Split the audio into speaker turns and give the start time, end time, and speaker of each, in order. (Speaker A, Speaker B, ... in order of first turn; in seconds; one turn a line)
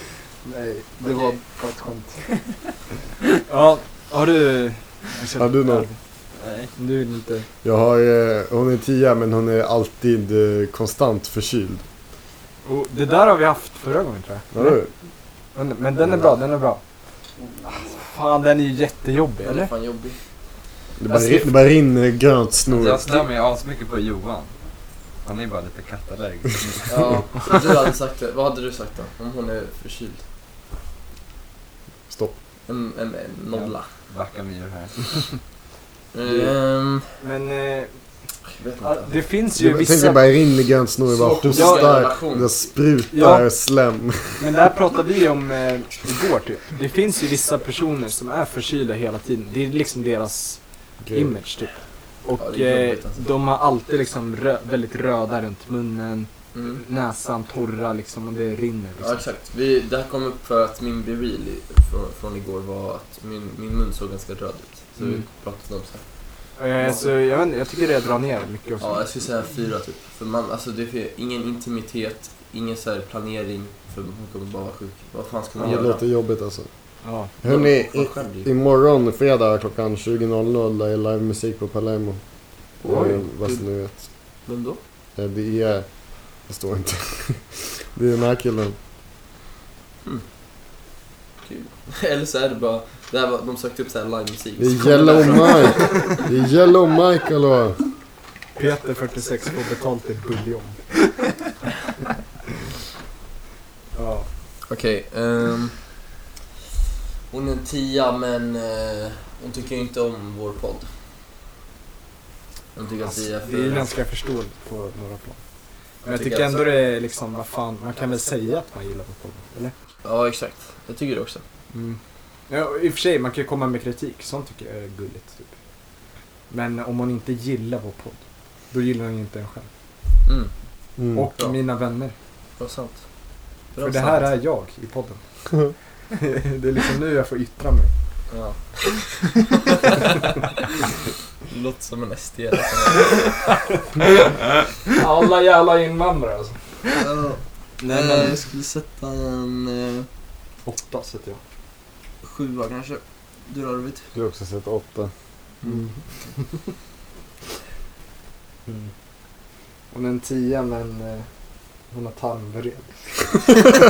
Speaker A: 0.4-2.2
Speaker A: 3.5-6.0
Speaker B: 5.4-5.9
Speaker C: 6.4-6.7
Speaker A: 6.8-7.5
Speaker B: 7.6-11.8
Speaker A: 12.6-14.8
Speaker B: 14.5-14.9
Speaker A: 15.5-16.8
Speaker D: 17.4-17.9
Speaker A: 17.6-19.7
Speaker D: 19.4-20.2
Speaker B: 21.0-23.0
Speaker A: 21.1-21.5
Speaker C: 22.7-24.5
Speaker C: 25.2-27.2
Speaker D: 26.9-30.2
Speaker B: 32.1-32.4
Speaker D: 32.7-33.9
Speaker C: 33.5-35.2
Speaker D: 36.1-37.1
Speaker A: 37.2-38.0
Speaker D: 38.5-39.2
Speaker A: 38.8-40.2
Speaker B: 39.6-44.4
Speaker D: 41.1-42.5
Speaker A: 41.5-41.9
Speaker A: 43.1-43.5
Speaker A: 44.4-50.6
Speaker B: 51.0-51.4
Speaker A: 51.1-51.7
Speaker A: 52.2-59.2
Speaker D: 52.4-53.2
Speaker D: 56.5-56.8
Speaker D: 59.0-66.0
Speaker A: 65.0-65.2
Speaker A: 66.6-69.0
Speaker D: 68.8-76.0
Speaker B: 75.6-76.7
Speaker A: 77.0-77.3
Speaker B: 77.4-82.2
Speaker D: 77.4-78.5
Speaker B: 82.8-84.0
Speaker D: 82.8-83.7
Speaker A: 82.9-83.2
Speaker D: 84.5-84.8
Speaker B: 85.2-85.9
Speaker B: 86.4-88.8
Speaker D: 91.4-96.2
Speaker B: 94.6-97.8
Speaker A: 98.5-100.8
Speaker A: 103.9-104.3
Speaker D: 104.7-106.0
Speaker D: 107.3-110.9
Speaker D: 112.7-113.9
Speaker A: 113.0-115.4
Speaker A: 116.0-119.7
Speaker D: 116.1-116.6
Speaker D: 120.0-121.4
Speaker A: 121.7-125.5
Speaker A: 126.5-128.2
Speaker A: 128.7-129.7
Speaker D: 130.2-130.5
Speaker B: 131.0-131.3
Speaker A: 131.1-132.1
Speaker D: 132.6-133.0
Speaker D: 133.7-134.3
Speaker A: 133.8-135.2
Speaker A: 136.1-137.9
Speaker D: 138.3-139.1
Speaker D: 139.7-140.3
Speaker D: 141.5-143.6
Speaker A: 144.9-146.8
Speaker D: 147.0-150.1
Speaker A: 147.8-148.4
Speaker A: 150.6-151.4
Speaker D: 152.2-154.1
Speaker B: 154.1-155.1
Speaker A: 155.6-156.0
Speaker A: 159.9-161.3
Speaker A: 161.9-162.9